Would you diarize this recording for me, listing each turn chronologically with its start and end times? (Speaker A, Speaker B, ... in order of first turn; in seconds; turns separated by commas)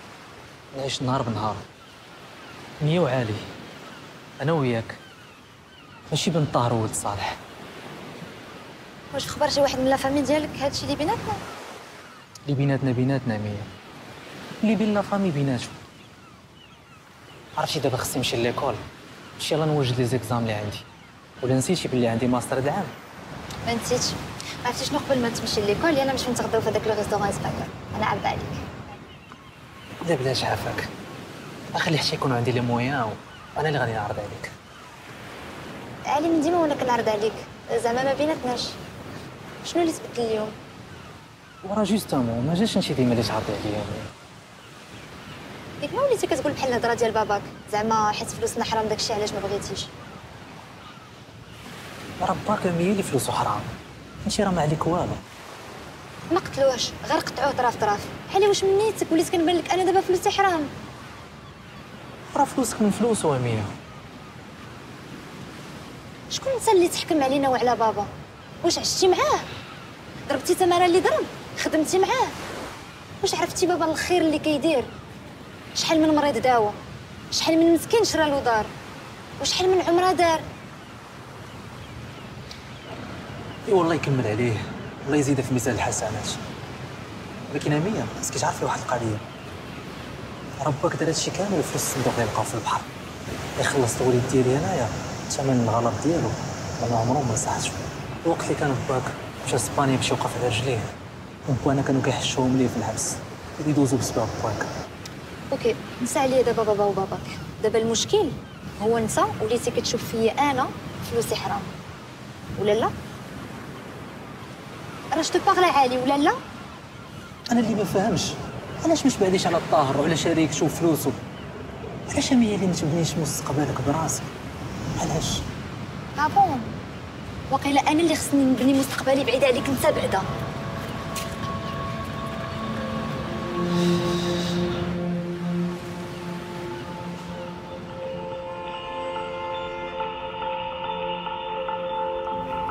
Speaker A: 0.7-1.6, Speaker A: 2.8-3.4, Speaker A: 4.4-5.0, Speaker A: 6.1-7.4, Speaker B: 9.1-11.4, Speaker A: 12.5-13.7, Speaker A: 14.6-15.8, Speaker A: 17.6-18.8, Speaker A: 19.4-20.8, Speaker A: 21.4-22.9, Speaker B: 23.6-28.6, Speaker A: 30.0-30.9, Speaker A: 31.7-34.5, Speaker B: 36.1-38.8, Speaker B: 39.6-40.5, Speaker A: 41.6-44.1, Speaker B: 45.8-49.9, Speaker A: 52.2-53.7, Speaker A: 54.2-55.2, Speaker B: 56.3-60.7, Speaker A: 62.3-63.7, Speaker B: 66.3-68.1, Speaker B: 68.6-69.5, Speaker B: 70.3-72.3, Speaker B: 73.2-74.9, Speaker B: 75.8-76.8, Speaker B: 77.3-78.7, Speaker B: 79.4-80.5, Speaker A: 83.7-86.4, Speaker A: 87.5-89.2, Speaker A: 90.6-92.9, Speaker A: 93.6-100.9, Speaker A: 101.5-104.7, Speaker B: 105.5-111.7, Speaker B: 112.6-112.9, Speaker B: 115.1-116.4, Speaker A: 117.5-121.2, Speaker A: 122.1-124.3, Speaker A: 125.0-125.4, Speaker B: 126.2-126.7, Speaker B: 127.5-130.3